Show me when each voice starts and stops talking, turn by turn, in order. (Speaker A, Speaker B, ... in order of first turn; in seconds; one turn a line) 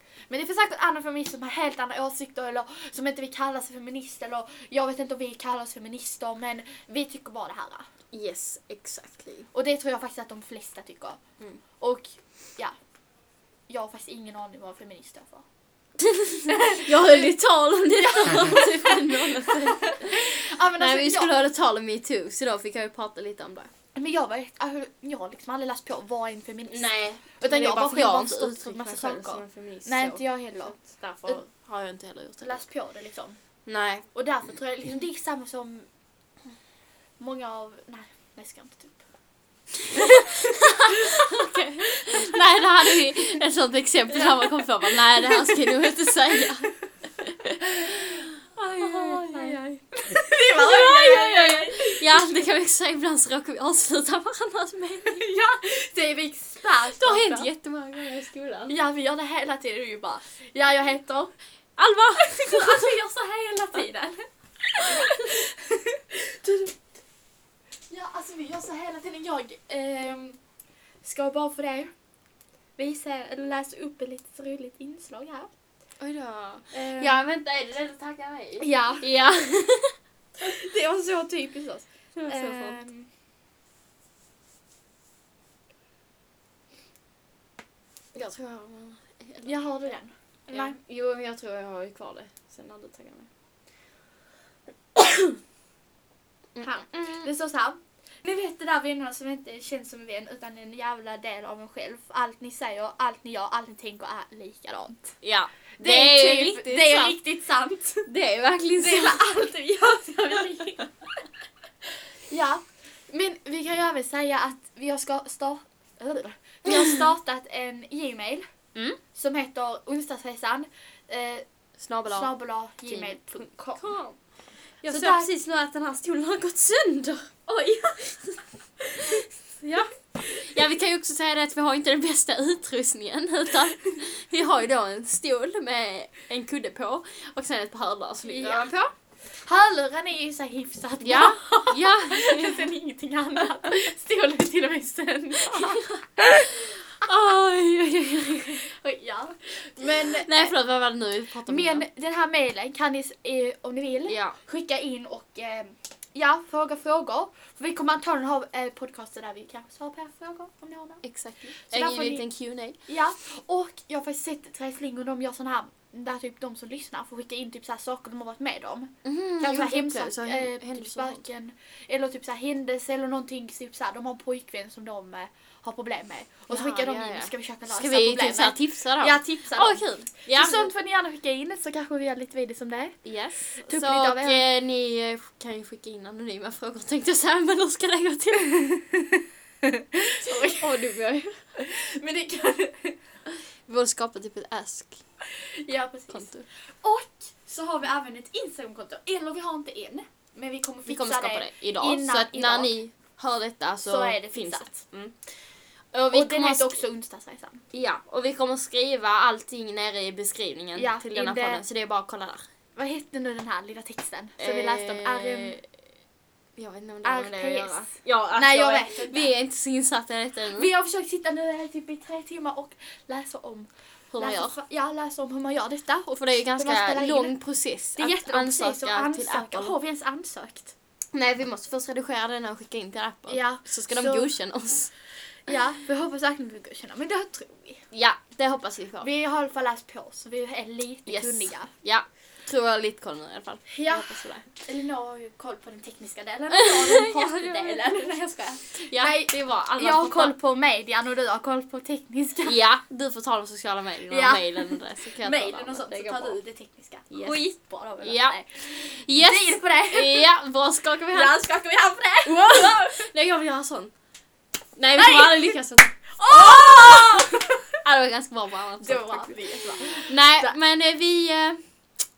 Speaker A: 0.3-7.9
Speaker B: 8.1-9.5
Speaker A: 9.5-11.2
Speaker A: 11.8-12.7
Speaker A: 13.7-15.4
Speaker B: 16.0-23.7
Speaker A: 16.5-17.3
Speaker A: 17.9-21.4
Speaker A: 23.9-30.8
Speaker B: 26.7-32.6
Speaker A: 32.4-33.4
Speaker B: 33.6-34.1
Speaker A: 34.1-35.9
Speaker A: 37.2-39.0
Speaker A: 39.9-41.2
Speaker B: 39.9-46.8
Speaker A: 41.9-42.2
Speaker A: 44.1-44.6
Speaker A: 45.2-45.7
Speaker B: 47.4-49.8
Speaker A: 47.8-52.1
Speaker B: 50.5-55.2
Speaker A: 55.0-57.5
Speaker B: 57.0-58.7
Speaker A: 58.7-61.3
Speaker B: 61.8-63.0
Speaker A: 62.1-66.8
Speaker B: 64.8-65.4
Speaker A: 67.9-70.4
Speaker A: 71.0-71.9
Speaker A: 72.8-75.5
Speaker B: 76.0-79.9
Speaker A: 76.7-77.2
Speaker A: 78.6-79.0
Speaker A: 80.4-83.1
Speaker B: 82.2-82.8
Speaker B: 88.1-89.7
Speaker A: 89.4-90.8
Speaker B: 90.5-93.3
Speaker B: 95.0-95.3
Speaker B: 96.5-97.3
Speaker A: 96.6-105.2
Speaker B: 105.2-107.2
Speaker A: 105.8-108.1
Speaker B: 108.0-109.2
Speaker A: 108.8-110.9
Speaker A: 112.3-118.4
Speaker B: 118.7-119.0
Speaker A: 119.1-121.5
Speaker B: 121.8-122.3
Speaker A: 122.1-123.9
Speaker B: 122.9-124.2
Speaker A: 124.8-125.3
Speaker B: 124.8-128.3
Speaker B: 128.9-138.9
Speaker A: 138.2-138.7
Speaker A: 139.3-145.8
Speaker B: 141.0-142.7
Speaker B: 145.5-148.7
Speaker A: 148.7-150.5
Speaker B: 149.8-151.8
Speaker A: 151.5-161.0
Speaker B: 154.1-154.4
Speaker B: 161.0-162.8
Speaker A: 161.7-162.2
Speaker A: 162.9-184.4
Speaker B: 169.0-171.2
Speaker B: 176.5-180.7
Speaker B: 183.0-188.8
Speaker A: 189.1-190.7
Speaker B: 190.2-191.3
Speaker A: 191.6-193.0
Speaker B: 193.7-195.0
Speaker A: 195.3-202.8
Speaker B: 196.1-196.4
Speaker B: 200.9-205.2
Speaker A: 203.8-204.8
Speaker B: 205.9-206.8
Speaker A: 206.1-207.6
Speaker B: 207.7-212.4
Speaker A: 210.8-211.6
Speaker A: 212.8-215.6
Speaker B: 214.4-215.7
Speaker B: 216.6-220.7
Speaker A: 217.0-219.3
Speaker A: 220.5-227.4
Speaker B: 224.1-224.6
Speaker B: 226.1-229.8
Speaker A: 227.9-230.7
Speaker B: 231.1-234.9
Speaker A: 233.3-234.3
Speaker A: 235.5-237.8
Speaker B: 237.9-239.1
Speaker A: 239.0-241.7
Speaker B: 241.1-244.5
Speaker A: 243.7-252.6
Speaker B: 246.5-248.1
Speaker B: 248.7-250.3
Speaker B: 252.4-256.4
Speaker A: 254.1-260.3
Speaker B: 257.1-257.4
Speaker B: 258.0-261.5
Speaker A: 261.1-263.1
Speaker B: 262.2-263.9
Speaker B: 264.8-271.6
Speaker A: 264.9-265.5
Speaker A: 266.1-267.6
Speaker A: 268.8-270.6